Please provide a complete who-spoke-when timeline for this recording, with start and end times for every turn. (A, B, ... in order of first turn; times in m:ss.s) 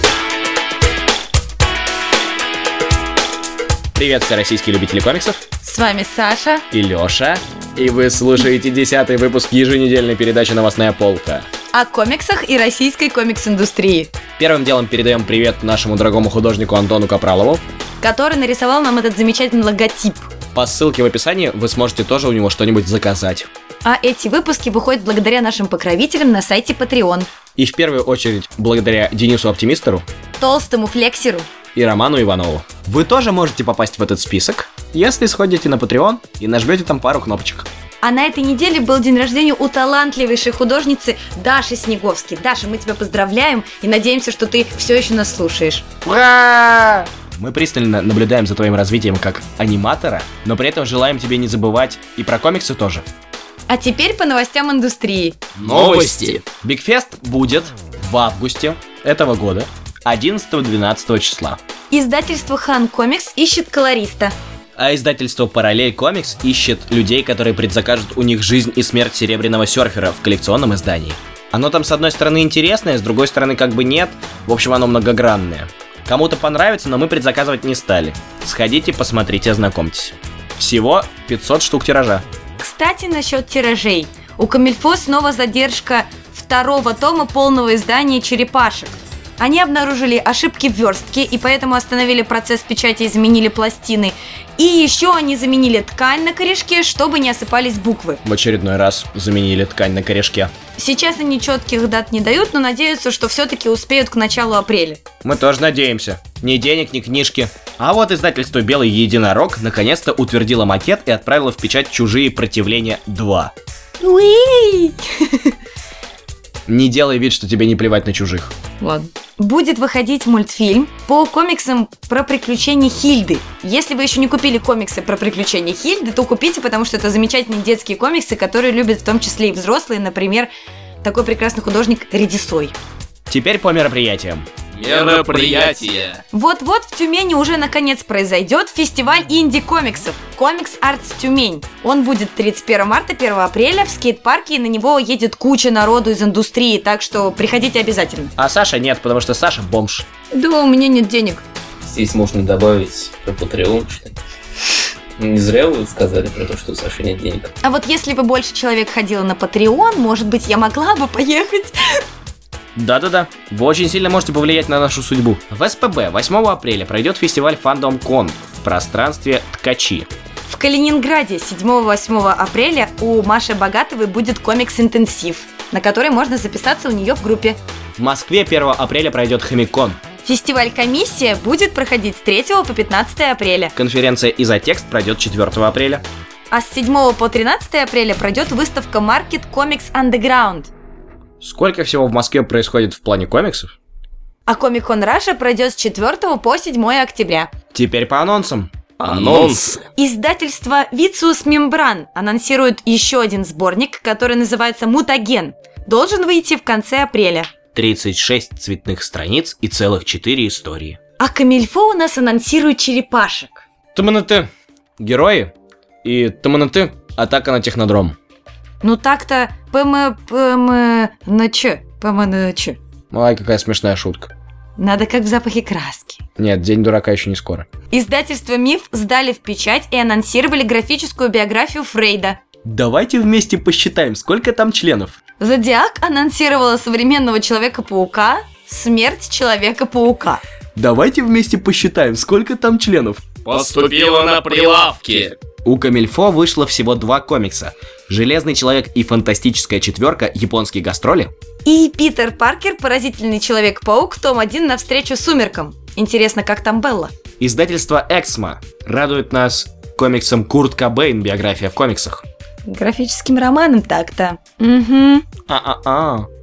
0:04.0-0:05.4 A
0:05.6-0:06.6 B
0:06.7-0:11.5 A
0:11.7-0:14.1 B
0:14.4-0:17.6 A
0:18.0-0:20.3 B
0:20.5-0:23.5 A
0:23.8-0:27.3 B
0:27.6-0:30.0 A
0:30.4-0:31.5 B
0:31.8-0:37.7 A
0:38.0-0:45.9 B
0:46.0-0:53.0 A
0:53.7-0:55.4 B
0:55.6-0:56.4 C
0:55.7-0:56.0 A
0:56.6-1:01.6 A
1:01.9-1:04.4 B
1:04.8-1:22.2 A
1:22.6-1:38.2 B
1:38.2-1:40.5 A
1:40.8-1:45.0 B
1:45.2-1:53.5 A
1:54.0-1:55.5 B
1:56.7-1:58.5 A
1:58.8-2:10.5 B
2:11.0-2:12.8 B
2:13.3-2:14.5 A
2:14.7-2:16.2 C
2:16.3-2:28.3 B
2:28.4-2:30.1 A
2:30.3-2:31.4 B
2:31.8-2:34.2 C
2:35.2-2:37.5 C
2:37.6-2:42.0 B
2:42.8-2:50.1 A
2:50.5-2:57.6 B
2:58.0-3:00.0 A
3:00.2-3:03.7 B
3:03.8-3:06.0 A
3:06.5-3:10.7 B
3:11.4-3:13.7 A
3:14.5-3:17.5 B
3:17.7-3:19.6 A
3:19.0-3:19.8 C
3:20.0-3:27.5 B
3:27.7-3:31.0 A
3:31.2-3:33.7 B
3:34.0-3:34.5 A
3:35.0-3:35.5 A
3:36.0-3:38.2 A
3:38.8-3:42.8 B
3:43.1-3:44.3 A
3:44.8-3:46.2 B
3:46.4-3:47.7 A
3:47.9-3:52.4 B
3:52.6-3:55.2 A
3:55.4-4:00.4 B
4:00.8-4:03.2 A
4:03.4-4:05.4 C
4:05.6-4:11.3 A
4:11.6-4:17.1 B
4:17.4-4:22.2 A
4:22.6-4:25.3 B
4:25.5-4:26.3 A